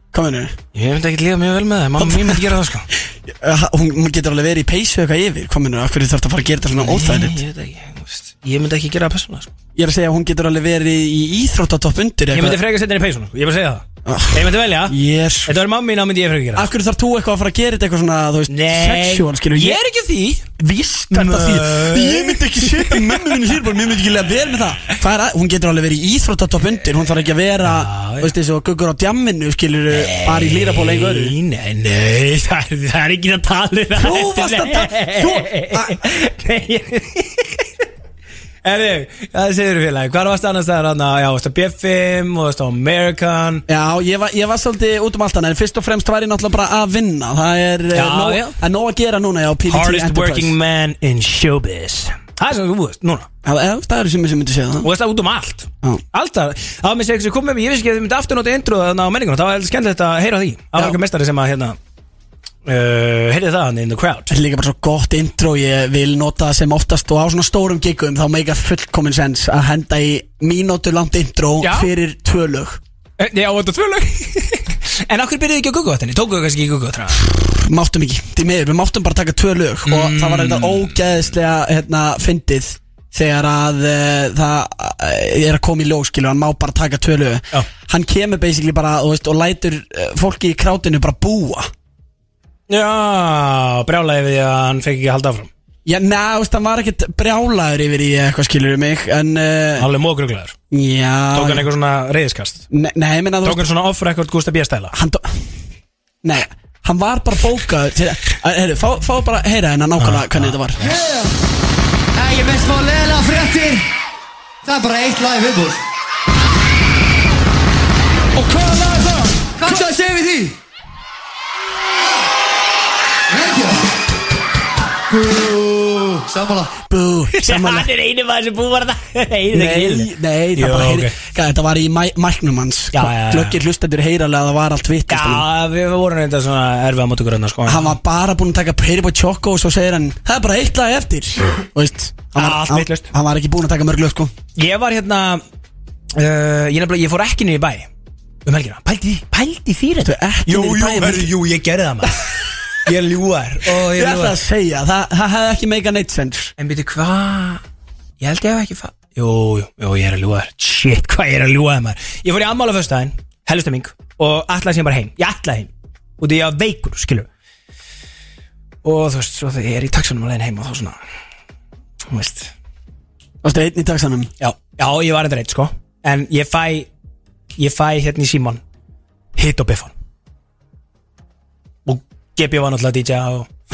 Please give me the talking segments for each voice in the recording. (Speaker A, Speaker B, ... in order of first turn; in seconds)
Speaker A: 0.1-0.6, 2.0-2.5, 3.3-7.4, 9.8-12.6, 14.0-15.5, 16.5-19.8, 20.6-31.3, 34.0-36.0, 43.7-50.5, 53.4-54.9, 64.3-72.8, 77.3-91.7, 95.8-99.9, 100.7-101.7, 102.7-103.7, 104.9-105.4, 106.2-110.8, 126.9-127.9, 129.5-135.4, 137.7-144.3, 150.0-151.3, 153.7-156.5, 173.4-174.3
Speaker B: 0.7-2.9, 6.8-9.5, 12.3-16.7, 18.5-20.5, 21.1-23.4, 27.6-28.3, 29.9-37.6, 38.6-43.6, 47.9-48.6, 49.7-53.3, 54.8-61.8, 62.6-64.3, 71.6-71.9, 73.2-77.3, 79.8-80.9, 92.7-95.5, 99.8-100.5, 101.3-102.6, 103.4-104.9, 110.0-110.5, 127.3-131.1, 132.9-133.6, 135.1-137.9, 142.3-143.1, 144.6-145.4, 146.1-147.9, 148.4-152.2, 152.8-154.4, 156.6-157.6, 158.2-167.3, 168.8-171.0, 172.1-172.5, 174.4-176.9, 177.6-178.6, 179.3-179.9, 181.8-183.5
Speaker C: 110.8-111.3, 112.1-113.9, 114.6-115.8, 118.3-120.6, 123.3-123.9, 125.1-126.8